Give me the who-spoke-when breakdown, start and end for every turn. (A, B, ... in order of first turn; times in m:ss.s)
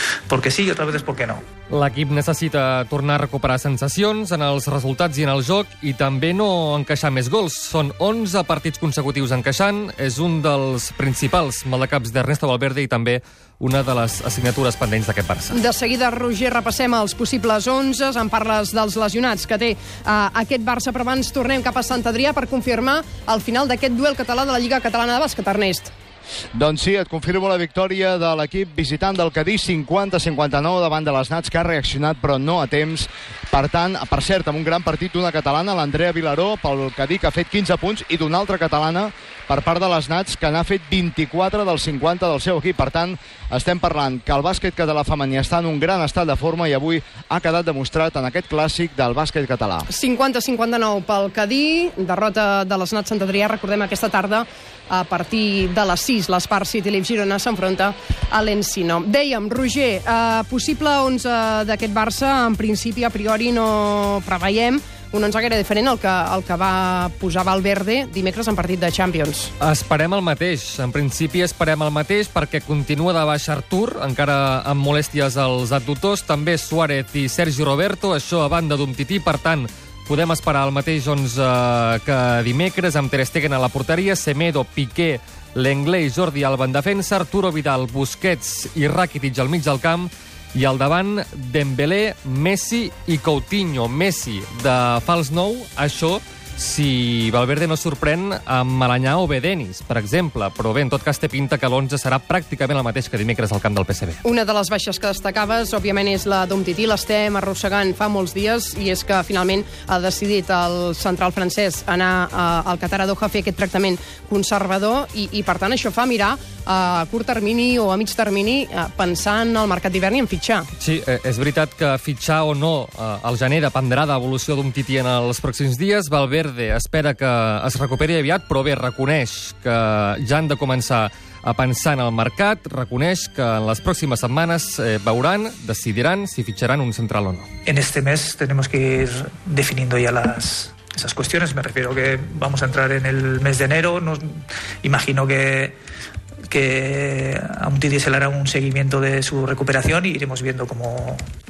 0:00.3-0:01.4 A
0:01.7-0:15.6 B
0:15.5-0:25.9 C
0:26.5-0:49.8 D
0:49.9-1:09.5 C
1:09.6-1:44.2 B
1:44.2-2:00.7 C
2:00.8-2:17.5 B
2:17.6-2:25.8 A
2:26.5-2:31.2 A